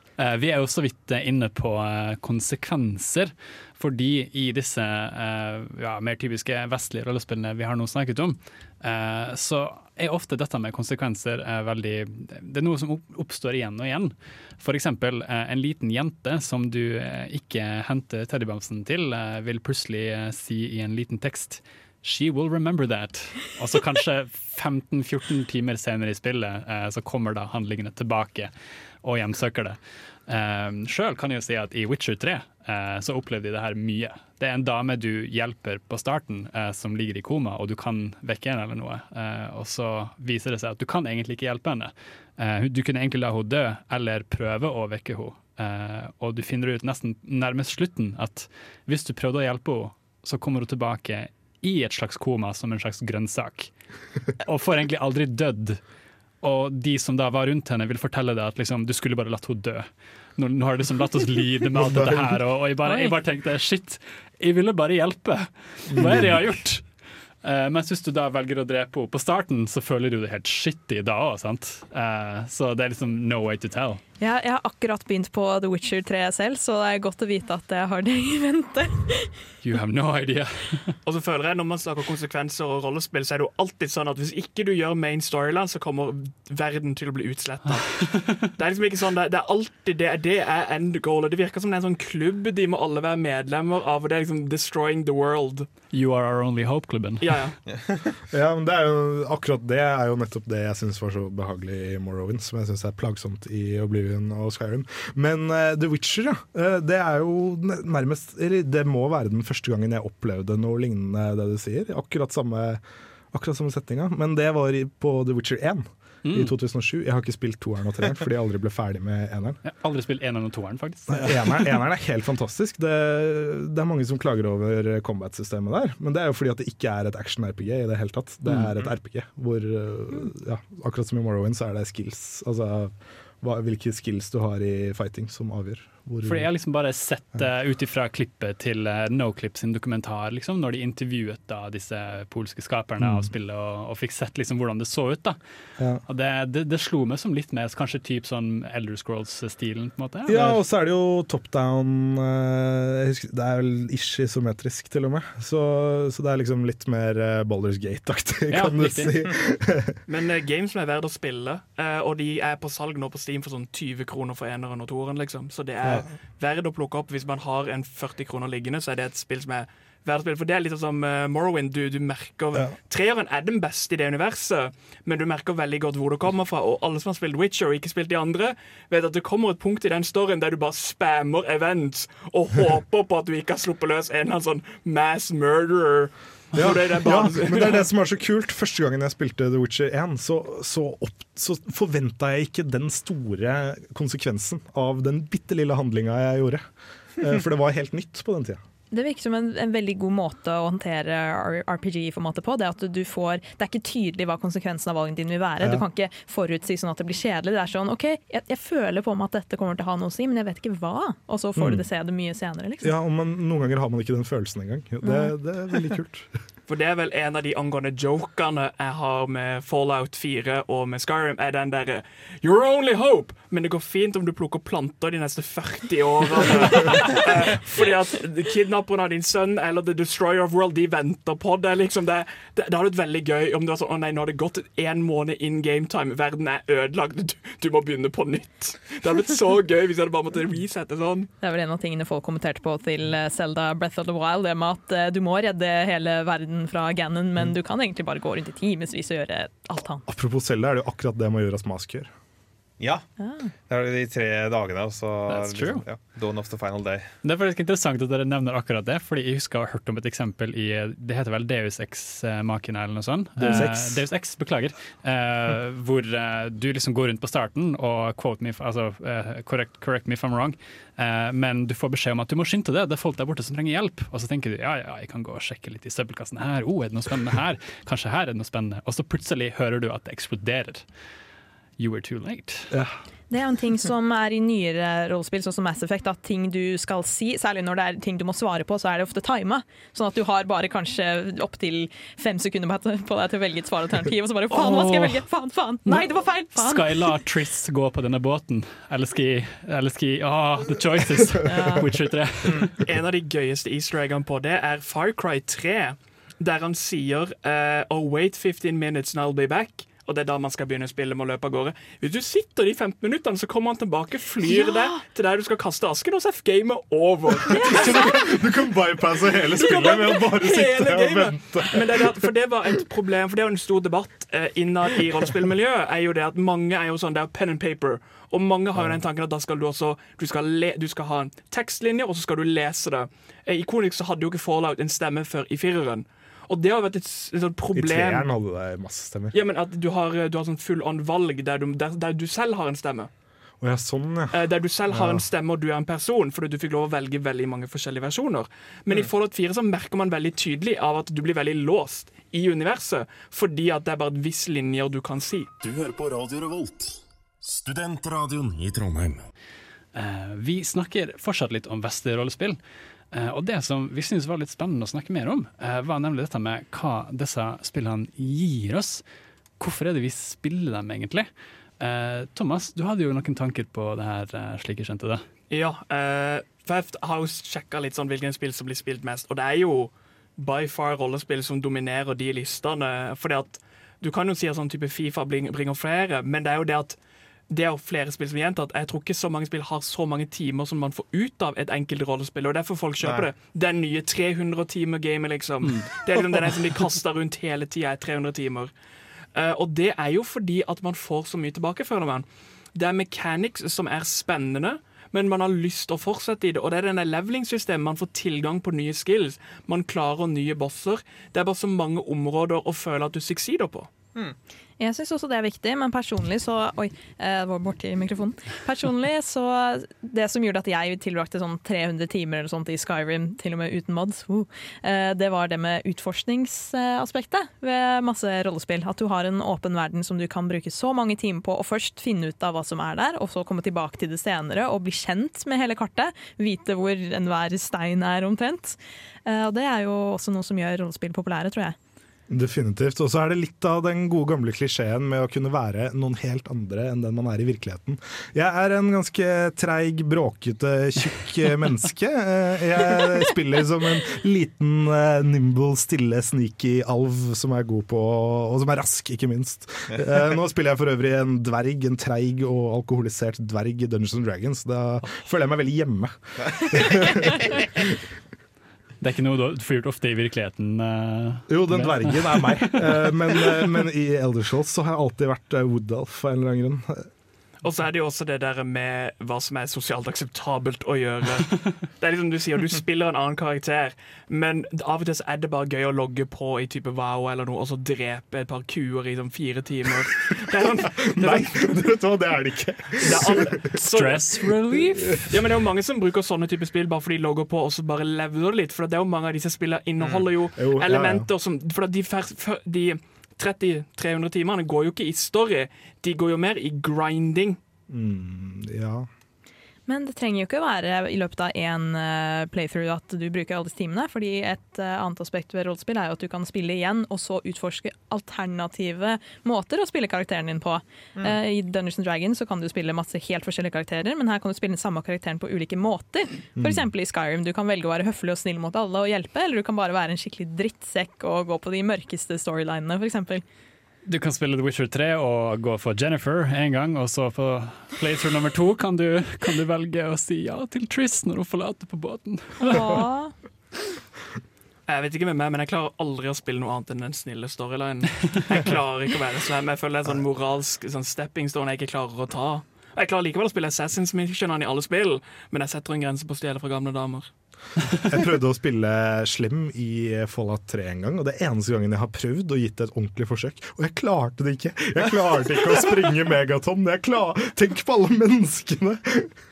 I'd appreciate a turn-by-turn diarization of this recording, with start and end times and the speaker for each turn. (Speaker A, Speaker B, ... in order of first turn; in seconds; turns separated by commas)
Speaker A: 0.2-28.5, Speaker A: 29.0-53.7, Speaker A: 54.4-55.8, Speaker A: 56.4-66.8, Speaker B: 61.8-62.3, Speaker B: 65.9-66.3, Speaker A: 67.4-74.0, Speaker C: 74.2-79.3, Speaker A: 79.6-81.0, Speaker D: 81.1-95.7, Speaker A: 88.0-88.5, Speaker A: 95.9-97.5, Speaker D: 97.2-97.5, Speaker E: 97.7-98.2, Speaker B: 98.3-119.6, Speaker A: 116.3-116.5, Speaker A: 119.7-121.8, Speaker B: 121.1-136.5, Speaker A: 136.2-145.4, Speaker B: 143.0-143.3, Speaker A: 146.1-150.6, Speaker B: 150.3-160.0, Speaker A: 158.5-159.3, Speaker D: 160.1-187.8, Speaker B: 186.6-196.6, Speaker B: 197.2-198.6, Speaker C: 198.9-212.9, Speaker B: 211.6-211.9, Speaker B: 212.8-216.3, Speaker C: 215.0-215.3, Speaker D: 216.7-241.3, Speaker C: 241.4-250.1, Speaker B: 250.1-252.1, Speaker E: 252.8-253.1, Speaker C: 253.2-253.5, Speaker E: 253.7-257.1, Speaker A: 255.3-255.8, Speaker A: 257.2-280.9, Speaker B: 263.4-264.0, Speaker A: 281.8-282.7, Speaker C: 283.3-297.1, Speaker A: 294.5-295.2, Speaker A: 295.9-302.8, Speaker C: 301.4-301.8, Speaker D: 302.8-318.3, Speaker C: 314.4-315.0, Speaker B: 317.5-322.2, Speaker D: 319.5-338.3, Speaker B: 337.8-339.4, Speaker D: 339.3-343.1, Speaker B: 343.6-345.2, Speaker D: 344.3-355.5, Speaker F: 355.6-359.3, Speaker A: 359.9-362.6, Speaker A: 363.1-369.0, Speaker A: 369.6-375.2, Speaker D: 375.5-387.0, Speaker D: 387.5-398.7, Speaker E: 393.0-393.3, Speaker A: 395.6-396.0, Speaker D: 399.4-413.9, Speaker C: 414.8-441.8, Speaker B: 442.3-467.9, Speaker A: 469.0-473.7, Speaker B: 471.5-477.1, Speaker D: 477.6-491.7, Speaker B: 490.9-493.6, Speaker D: 493.0-494.2, Speaker A: 493.9-495.3, Speaker B: 494.7-495.2, Speaker D: 495.3-507.6, Speaker E: 500.0-500.2, Speaker B: 500.6-501.3, Speaker B: 507.9-509.1, Speaker C: 509.9-533.4, Speaker B: 526.6-526.9, Speaker A: 534.1-543.0, Speaker C: 542.6-543.3, Speaker D: 544.9-557.3, Speaker B: 558.1-569.4